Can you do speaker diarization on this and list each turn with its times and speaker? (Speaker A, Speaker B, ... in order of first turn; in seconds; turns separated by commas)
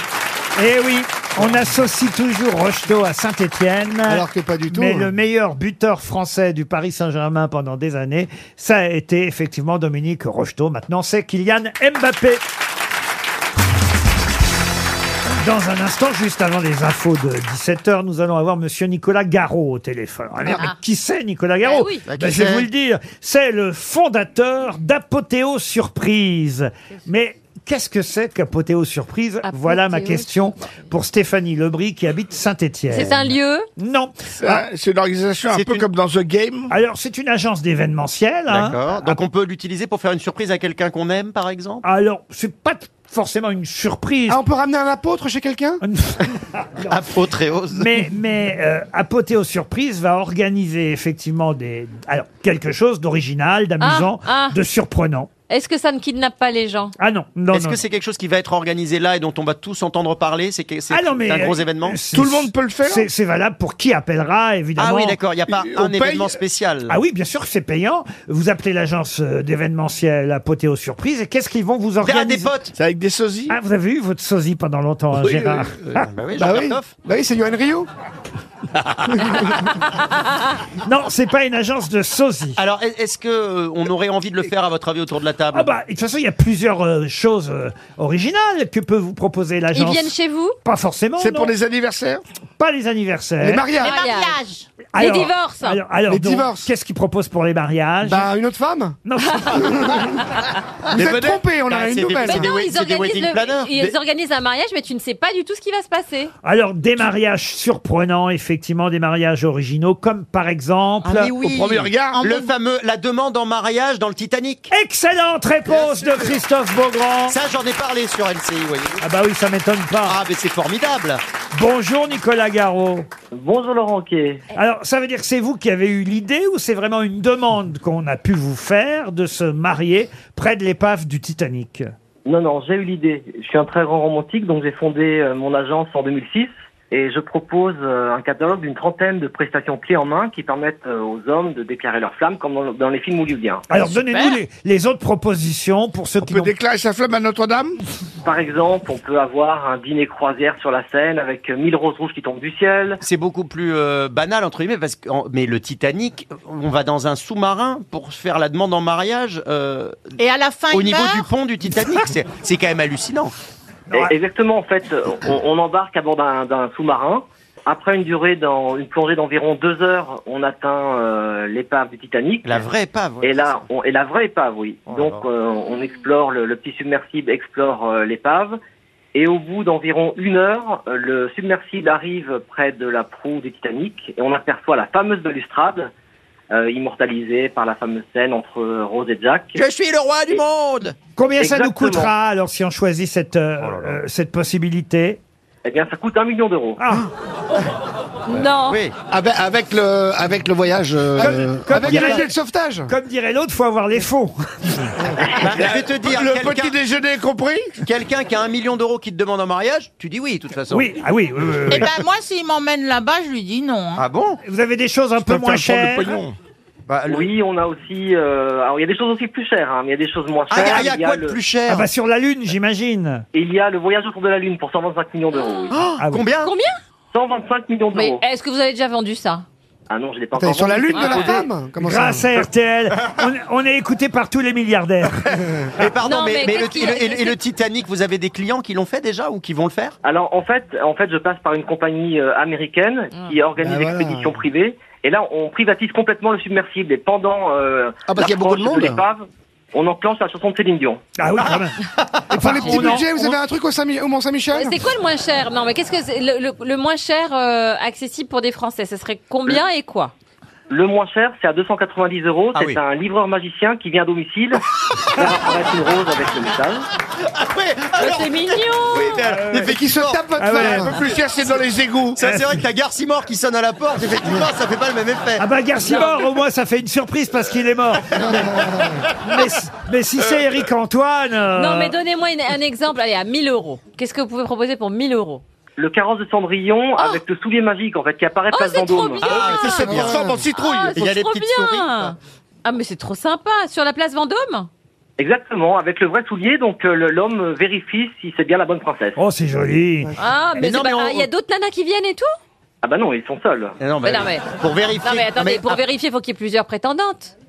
Speaker A: 0.6-12.4, Speaker B: 4.1-5.1, Speaker A: 15.4-33.3, Speaker C: 20.5-20.8, Speaker C: 21.6-22.1, Speaker D: 22.1-22.7, Speaker C: 29.4-30.3, Speaker C: 32.9-33.7, Speaker A: 33.8-34.6, Speaker E: 34.4-36.7, Speaker D: 35.5-35.9, Speaker A: 36.7-39.2, Speaker D: 38.5-41.8, Speaker A: 41.8-44.4, Speaker B: 44.3-45.8, Speaker A: 45.8-46.9, Speaker D: 46.9-47.9, Speaker A: 47.7-55.3, Speaker C: 53.8-54.6, Speaker C: 55.5-56.9, Speaker A: 57.0-57.8, Speaker D: 57.5-62.0, Speaker A: 60.9-65.2, Speaker E: 62.1-63.1, Speaker D: 64.8-67.0, Speaker E: 65.5-66.4, Speaker A: 66.9-72.5, Speaker D: 72.0-72.7, Speaker E: 72.8-73.6, Speaker A: 73.5-76.1, Speaker E: 75.2-76.0, Speaker D: 76.1-77.0, Speaker B: 76.4-77.9, Speaker B: 79.1-79.7, Speaker A: 80.8-82.6, Speaker D: 82.6-85.7, Speaker A: 85.5-90.1, Speaker C: 89.7-90.6, Speaker A: 90.6-91.5, Speaker E: 91.2-92.2, Speaker A: 92.6-93.7, Speaker B: 93.4-94.0, Speaker C: 93.8-94.5, Speaker F: 93.8-94.7, Speaker A: 95.0-98.3, Speaker C: 95.0-95.8, Speaker B: 96.1-96.7, Speaker B: 98.0-99.0, Speaker A: 99.1-99.8, Speaker B: 99.5-100.1, Speaker B: 100.9-102.5, Speaker D: 101.0-104.0, Speaker C: 102.2-106.3, Speaker A: 106.4-111.3, Speaker D: 111.0-114.7, Speaker E: 111.3-112.3, Speaker F: 112.2-112.5, Speaker A: 114.7-117.4, Speaker E: 115.7-116.4, Speaker D: 117.3-119.0, Speaker A: 119.0-120.2, Speaker D: 120.1-121.2, Speaker A: 121.5-123.1, Speaker G: 123.3-124.5, Speaker A: 124.5-131.9, Speaker G: 132.3-143.7, Speaker A: 143.7-146.5, Speaker F: 144.1-144.4, Speaker E: 146.2-147.8, Speaker G: 148.2-153.0, Speaker D: 153.0-160.1, Speaker F: 160.2-161.3, Speaker D: 160.7-163.3, Speaker G: 163.9-172.7, Speaker D: 172.4-173.6, Speaker G: 173.2-178.6, Speaker D: 174.9-175.3, Speaker G: 179.2-185.9, Speaker G: 186.5-189.6, Speaker D: 189.6-190.9, Speaker A: 191.2-195.2, Speaker G: 191.4-192.1, Speaker D: 193.6-193.9, Speaker G: 195.7-196.8, Speaker A: 196.8-197.1, Speaker C: 198.3-198.8, Speaker D: 198.7-198.9, Speaker H: 199.1-202.2, Speaker B: 201.2-202.9, Speaker A: 201.2-202.3, Speaker A: 202.9-204.7, Speaker D: 205.3-206.8, Speaker E: 205.4-207.8, Speaker D: 207.8-210.9, Speaker A: 210.7-211.9, Speaker F: 211.7-214.1, Speaker D: 214.0-214.4, Speaker A: 214.4-216.2, Speaker E: 215.2-216.3, Speaker D: 216.9-217.3, Speaker G: 217.1-221.4, Speaker D: 220.5-221.9, Speaker A: 221.7-223.2, Speaker G: 223.3-225.7, Speaker C: 225.3-225.7, Speaker D: 225.7-226.5, Speaker A: 226.0-226.2, Speaker C: 226.4-226.8, Speaker G: 227.1-228.2, Speaker C: 227.9-229.5, Speaker G: 229.9-231.4, Speaker B: 230.4-232.4, Speaker C: 230.9-231.4, Speaker A: 231.8-235.3, Speaker D: 235.8-239.9, Speaker C: 236.0-237.4, Speaker G: 240.0-251.0, Speaker B: 243.6-244.4, Speaker H: 248.1-249.0, Speaker A: 251.2-251.8, Speaker A: 252.3-253.4, Speaker B: 252.3-254.8, Speaker C: 254.5-260.1, Speaker G: 260.7-264.6, Speaker D: 262.6-262.8, Speaker G: 265.1-266.9, Speaker D: 267.3-270.3, Speaker C: 267.9-269.3, Speaker A: 269.3-269.7, Speaker B: 269.6-271.0, Speaker A: 270.4-270.9, Speaker E: 270.6-272.2, Speaker D: 272.2-275.4, Speaker A: 275.4-278.5, Speaker C: 275.9-276.2, Speaker B: 278.2-279.0, Speaker A: 279.2-282.0, Speaker C: 281.6-285.4, Speaker G: 285.8-289.3, Speaker C: 288.5-294.7, Speaker D: 289.2-290.3, Speaker E: 289.4-291.0, Speaker B: 289.8-290.4, Speaker D: 290.9-292.1, Speaker G: 295.2-299.2, Speaker A: 299.2-300.1, Speaker C: 300.2-302.3, Speaker D: 300.6-301.3, Speaker G: 302.8-303.8, Speaker D: 303.8-305.8, Speaker C: 304.0-307.3